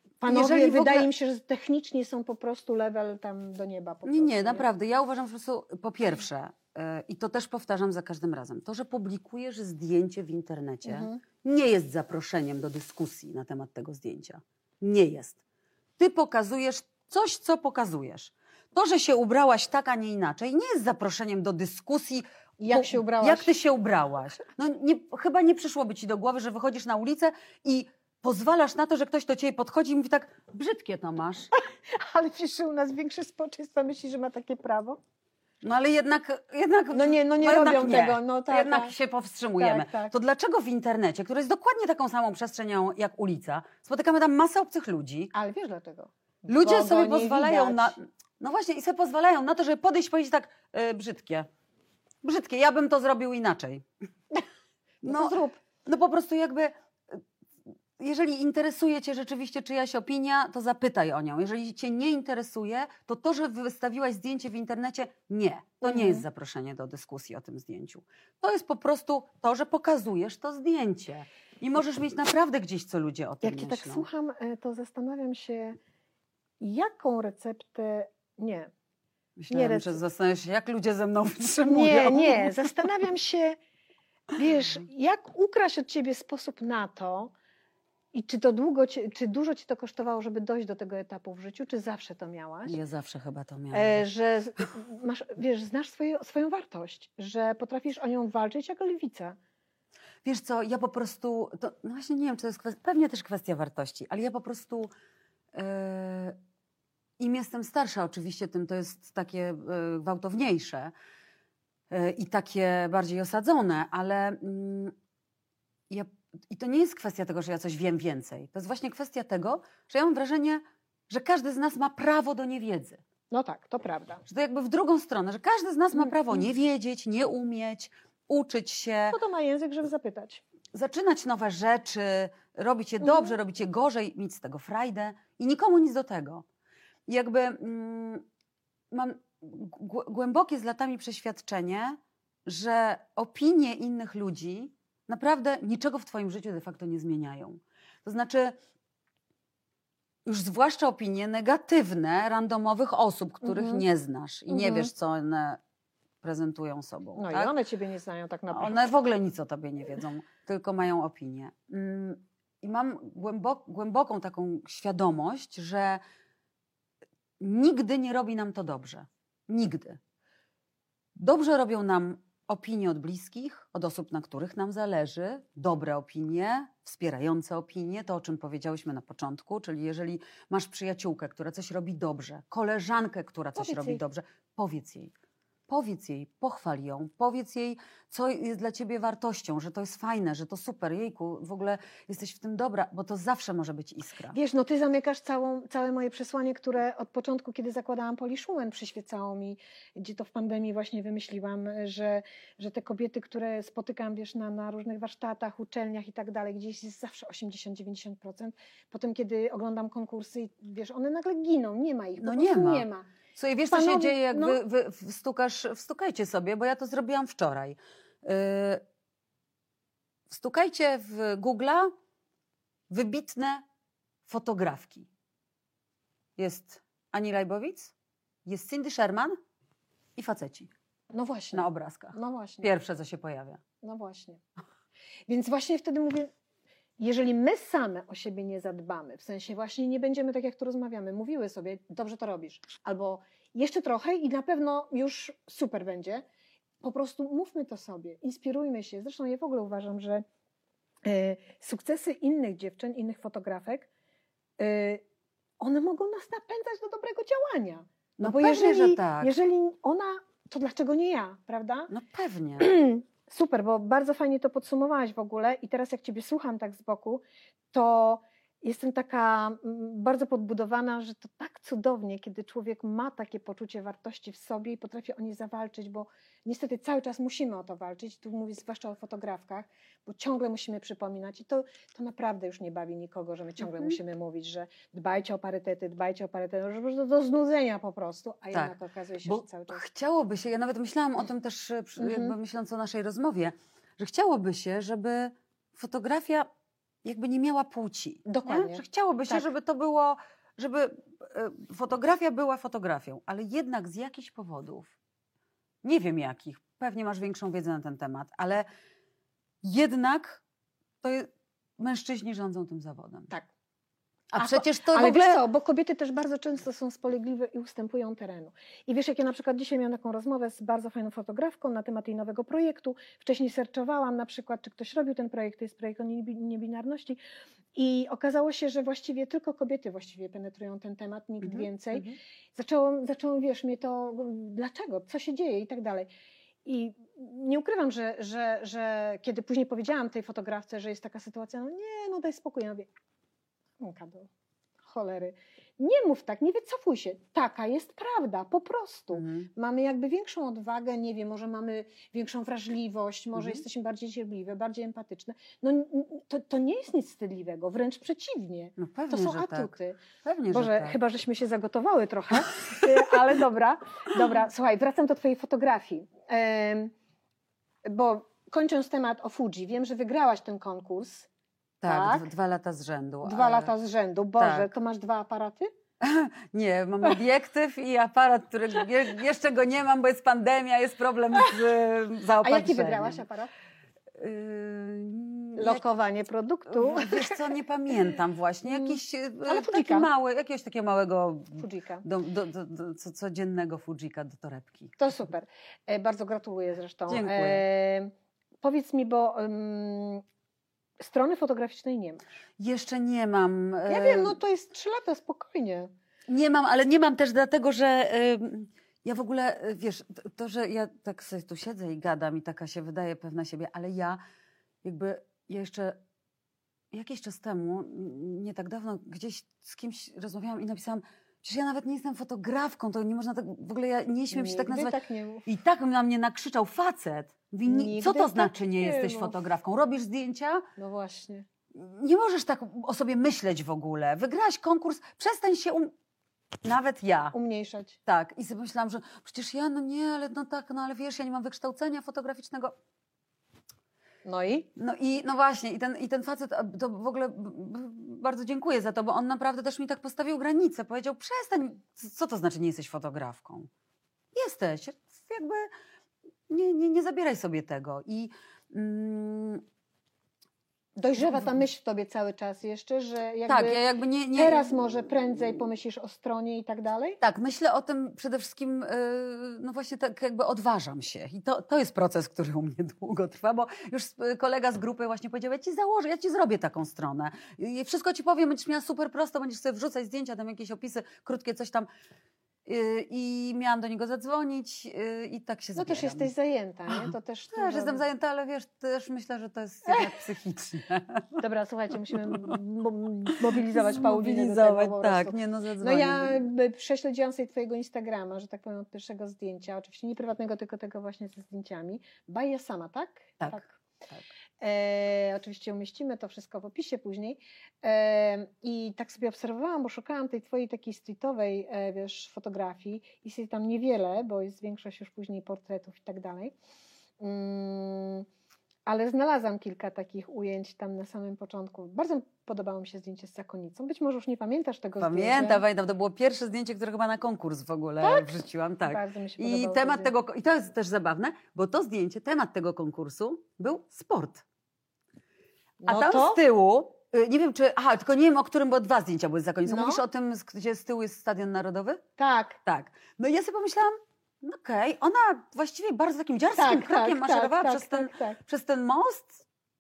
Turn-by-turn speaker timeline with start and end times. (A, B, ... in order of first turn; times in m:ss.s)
0:00.2-0:04.7 A
0:00.2-0:01.1 B
0:04.1-0:15.4 B
0:10.9-0:11.2 A
0:16.0-0:31.5 B
0:22.6-0:23.5 A
0:31.6-0:35.0 A
0:35.6-0:45.3 B
0:36.9-0:38.9 A
0:39.6-0:40.1 A
0:45.3-0:48.0 A
0:46.5-0:51.5 B
0:52.2-0:53.9 B
0:55.0-0:55.6 A
0:55.0-0:57.2 B
0:58.0-1:14.1 B
1:05.8-1:06.2 A
1:13.4-1:15.8 A
1:16.6-1:18.7 A
1:19.4-1:22.7 B
1:19.5-1:20.0 A
1:21.7-1:23.6 A
1:24.3-1:27.3 A
1:28.1-1:32.8 A
1:32.7-1:34.1 B
1:33.7-1:39.4 A
1:40.2-1:44.9 B
1:45.5-1:46.4 B
1:47.2-1:50.9 B
1:51.9-1:54.9 B
1:55.9-2:03.0 B
2:03.3-2:04.2 A
2:04.3-2:09.2 B
2:09.1-2:10.4 A
2:10.7-2:16.4 B
2:13.0-2:13.3 A
2:17.1-2:18.2 B
2:18.9-2:28.6 B
2:30.3-2:35.6 B
2:33.4-2:33.8 A
2:34.5-2:34.9 A
2:36.2-2:37.5 B
2:37.2-2:38.9 A
2:38.5-2:46.0 B
2:47.4-2:50.0 B
2:51.2-3:05.1 B
3:03.6-3:04.0 A
3:05.7-3:14.4 B
3:14.3-3:33.1 A
3:32.2-3:38.8 B
3:33.7-3:34.6 A
3:40.3-3:41.9 B
3:42.9-3:43.6 B
3:44.3-3:45.1 B
3:46.4-3:47.9 B
3:48.5-3:49.4 B
3:50.2-3:50.7 B
3:51.1-3:52.7 A
3:51.5-3:53.6 B
3:53.8-3:54.4 A
3:55.3-3:56.3 A
3:57.0-4:06.2 A
4:06.8-4:10.2 A
4:11.0-4:13.9 A
4:14.6-4:15.0 A
4:15.6-4:21.9 A
4:18.2-4:19.3 B
4:21.9-4:22.7 B
4:22.6-4:49.8 A
4:49.3-4:56.5 B
4:52.0-4:52.4 A
4:57.0-5:05.0 B
4:58.3-4:59.5 A
5:05.8-5:08.7 B
5:09.6-5:10.4 B
5:11.0-5:13.3 B
5:14.3-5:15.4 B
5:14.4-5:27.2 A
5:27.8-5:36.1 A
5:31.4-5:32.2 B
5:36.6-5:42.9 A
5:43.8-5:44.3 A
5:44.9-6:06.9 A
5:49.1-5:49.5 B
5:53.4-5:53.6 B
5:58.8-6:01.0 B
6:07.8-6:11.3 A
6:11.8-6:13.7 B
6:11.8-6:12.3 A
6:13.2-6:15.7 A
6:14.4-6:14.7 B
6:16.0-6:23.2 B
6:22.4-6:23.5 A
6:24.2-6:25.9 B
6:25.6-6:27.4 A
6:26.7-6:35.0 B
6:28.7-6:30.1 A
6:31.6-6:32.0 A
6:35.0-6:40.2 A
6:37.1-6:37.6 B
6:41.0-6:42.2 A
6:42.6-6:44.4 B
6:43.9-6:45.9 A
6:46.3-6:54.2 B
6:54.8-6:56.0 B
6:56.9-7:10.7 B
7:04.3-7:05.5 A
7:07.7-7:09.4 A
7:10.8-7:11.5 A
7:11.7-7:15.9 B
7:16.6-7:17.4 B
7:17.3-7:18.0 A
7:18.1-7:22.7 B
7:24.2-7:24.7 A
7:24.8-7:33.7 B
7:34.3-7:35.7 B
7:36.5-7:39.6 B
7:41.0-7:43.8 A
7:41.2-7:41.5 B
7:43.5-7:44.8 B
7:44.3-7:47.2 A
7:47.2-8:01.9 B
8:02.7-8:06.3 B
8:05.8-8:08.0 A
8:06.9-8:11.4 B
8:11.4-8:23.8 A
8:12.3-8:12.6 B
8:13.5-8:16.5 B
8:23.4-8:24.3 B
8:24.6-8:36.6 A
8:37.2-8:38.3 A
8:38.9-8:45.6 A
8:45.0-8:54.4 B
8:48.0-8:48.3 A
8:48.8-8:50.1 A
8:55.8-8:56.4 A
8:55.9-9:02.0 B
8:59.7-9:00.0 A
9:02.2-9:02.6 A
9:02.7-9:09.4 B
9:06.5-9:08.4 A